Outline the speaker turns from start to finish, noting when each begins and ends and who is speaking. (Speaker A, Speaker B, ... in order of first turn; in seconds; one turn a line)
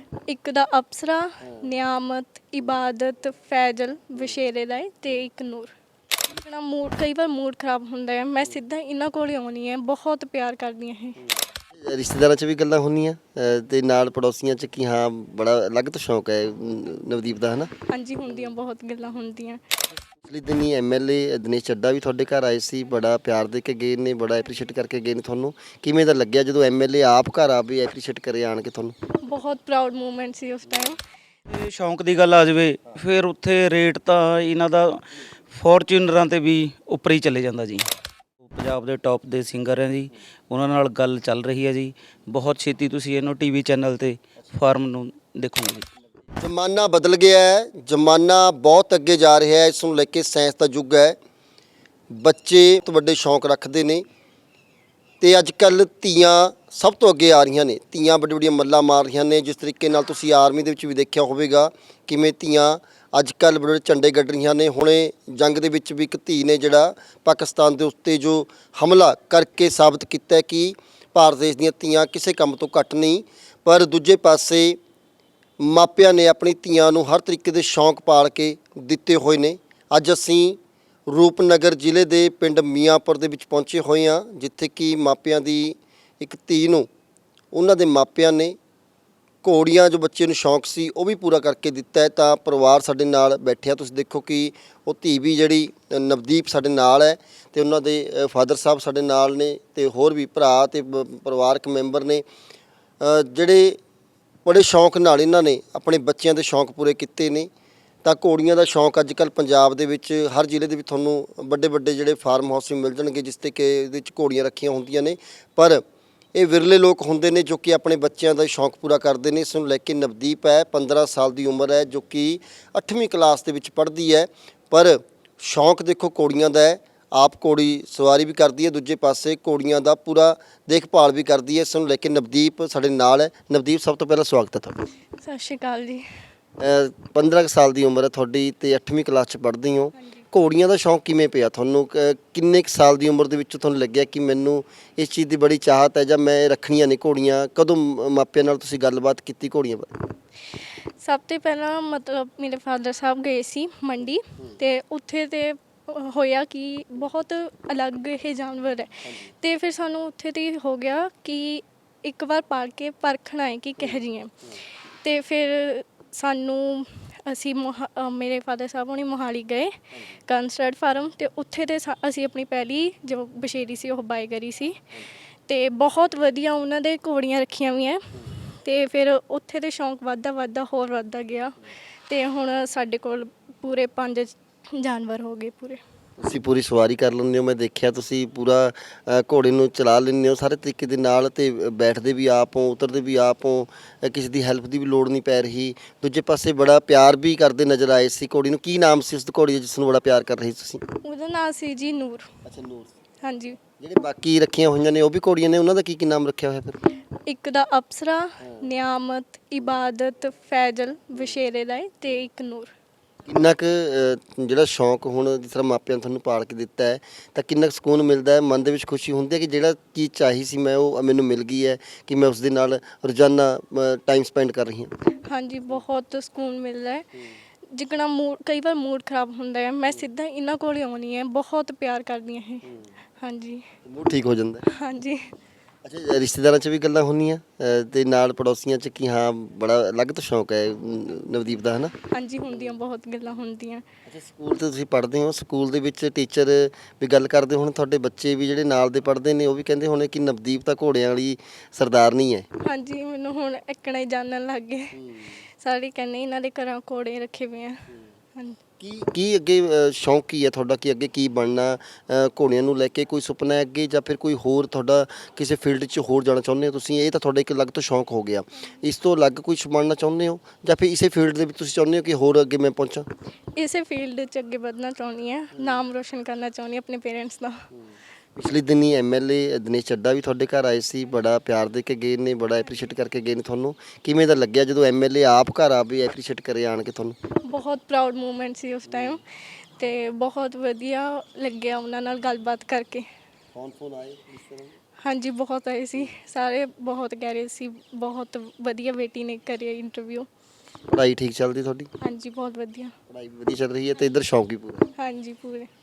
Speaker A: 0.3-5.7
Speaker A: 6.4-11.2
Speaker B: 11.8-17.7
Speaker A: 17.9-19.6
Speaker B: 20.2-28.9
Speaker A: 29.2-31.0
Speaker C: 31.5-37.9
Speaker C: 38.4-45.9
Speaker B: 46.4-51.2
Speaker B: 52.1-54.0
Speaker B: 55.2-74.8
Speaker B: 75.6-86.9
Speaker B: 87.5-88.6
Speaker B: 89.4-102.2
Speaker B: 103.0-103.8
Speaker B: 104.5-107.5
Speaker B: 108.0-115.8
Speaker B: 116.3-134.8
Speaker A: 135.2-136.1
Speaker B: 136.6-149.9
Speaker A: 140.0-140.2
Speaker A: 151.0-164.4
Speaker A: 165.0-174.8
Speaker A: 175.5-181.6
Speaker A: 182.1-185.8
Speaker B: 186.2-200.8
Speaker A: 200.9-202.3
Speaker B: 202.4-202.9
Speaker A: 203.2-203.6
Speaker B: 203.8-206.8
Speaker A: 207.3-212.7
Speaker B: 213.3-224.9
Speaker A: 225.3-227.1
Speaker A: 227.7-232.7
Speaker A: 233.2-233.7
Speaker B: 233.8-234.7
Speaker A: 234.7-235.3
Speaker B: 235.8-241.9
Speaker A: 242.1-243.8
Speaker B: 244.1-252.5
Speaker A: 252.6-254.9
Speaker B: 255.0-255.3
Speaker A: 255.6-257.9
Speaker B: 258.8-273.1
Speaker A: 273.6-277.6
Speaker B: 278.4-287.2
Speaker A: 287.4-289.2
Speaker B: 288.9-289.2
Speaker A: 289.8-293.1
Speaker B: 293.6-294.7
Speaker A: 295.0-300.3
Speaker B: 300.9-301.9
Speaker A: 302.0-302.9
Speaker B: 303.1-304.9
Speaker A: 304.9-305.7